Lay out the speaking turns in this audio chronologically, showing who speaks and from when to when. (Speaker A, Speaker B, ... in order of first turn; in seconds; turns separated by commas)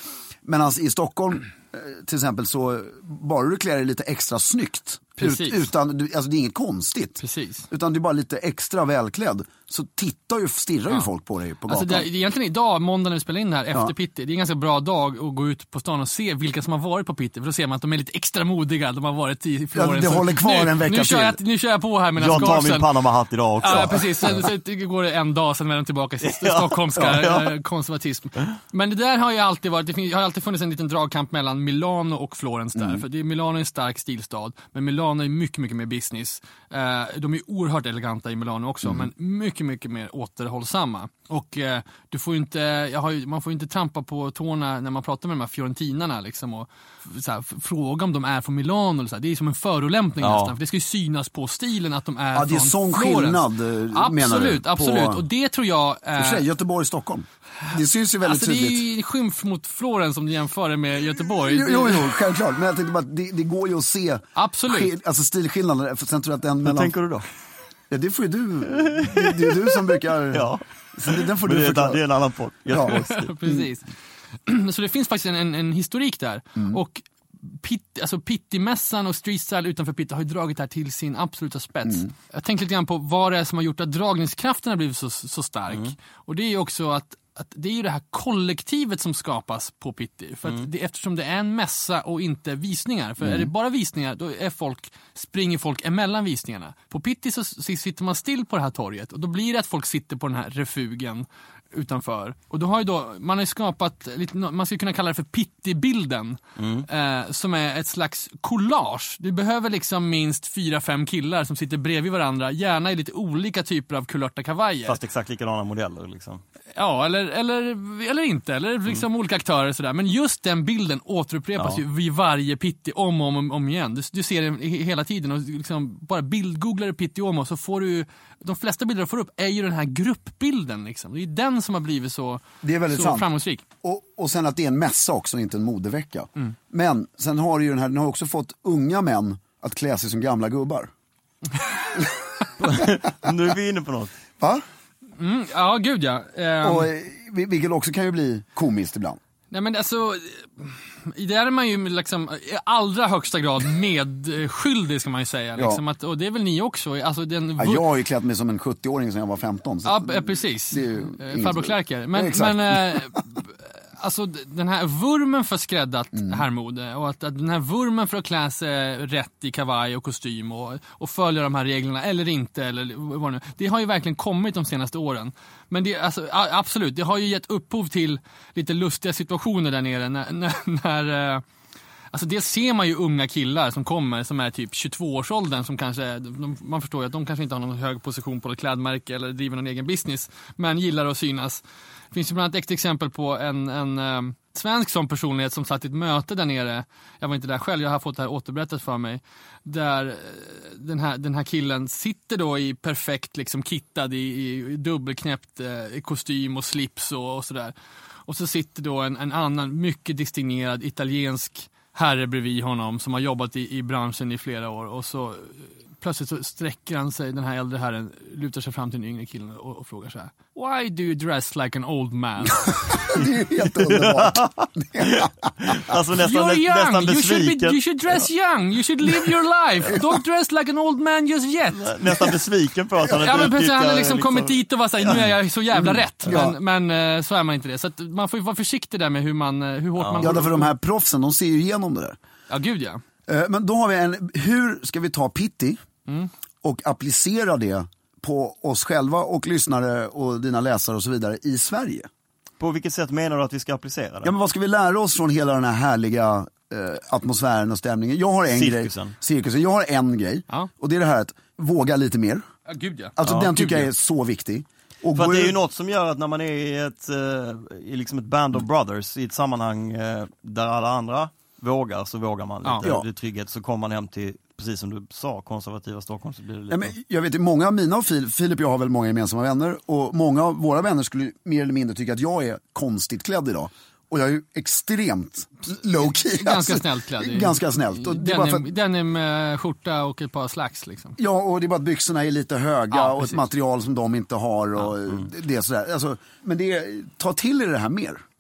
Speaker A: 0.4-12.1, Speaker B: 5.2-5.7, Speaker B: 7.2-7.7, Speaker B: 11.7-22.9, Speaker A: 19.7-21.4, Speaker C: 22.2-24.4, Speaker B: 23.6-56.4, Speaker C: 26.2-27.6, Speaker A: 32.8-33.0, Speaker C: 50.2-50.5, Speaker A: 52.3-55.3, Speaker A: 56.2-58.9, Speaker B: 58.2-62.1, Speaker A: 61.4-67.0, Speaker B: 64.4-64.9, Speaker C: 66.6-67.3, Speaker A: 67.9-72.0, Speaker C: 68.9-69.8, Speaker C: 70.3-73.3, Speaker A: 72.7-73.7, Speaker B: 72.8-73.9, Speaker B: 74.5-115.0, Speaker A: 81.9-82.1, Speaker A: 93.2-93.5, Speaker C: 106.6-106.9, Speaker C: 114.9-116.4, Speaker B: 116.8-133.6, Speaker A: 132.6-133.3, Speaker A: 133.8-140.9, Speaker C: 142.6-144.1, Speaker A: 144.4-144.6, Speaker B: 145.2-146.9, Speaker A: 146.6-149.2, Speaker B: 149.5-157.9, Speaker A: 155.6-155.8, Speaker A: 157.6-163.2, Speaker B: 159.8-181.4, Speaker A: 166.1-166.4, Speaker B: 182.1-207.7, Speaker B: 208.3-222.7, Speaker A: 222.7-225.7, Speaker C: 223.9-227.8, Speaker B: 226.2-231.9, Speaker C: 231.8-234.6, Speaker B: 233.2-240.7, Speaker A: 235.0-236.6, Speaker C: 240.0-240.4, Speaker A: 240.2-242.2, Speaker B: 242.5-243.0, Speaker A: 243.3-245.8, Speaker A: 246.6-252.1, Speaker C: 252.6-254.3, Speaker A: 254.2-262.5, Speaker C: 258.5-259.1, Speaker B: 262.7-263.2, Speaker A: 263.2-265.6, Speaker C: 263.2-263.9, Speaker C: 265.1-276.9, Speaker A: 276.7-288.7, Speaker B: 286.2-291.2, Speaker A: 291.2-298.2, Speaker B: 292.9-293.4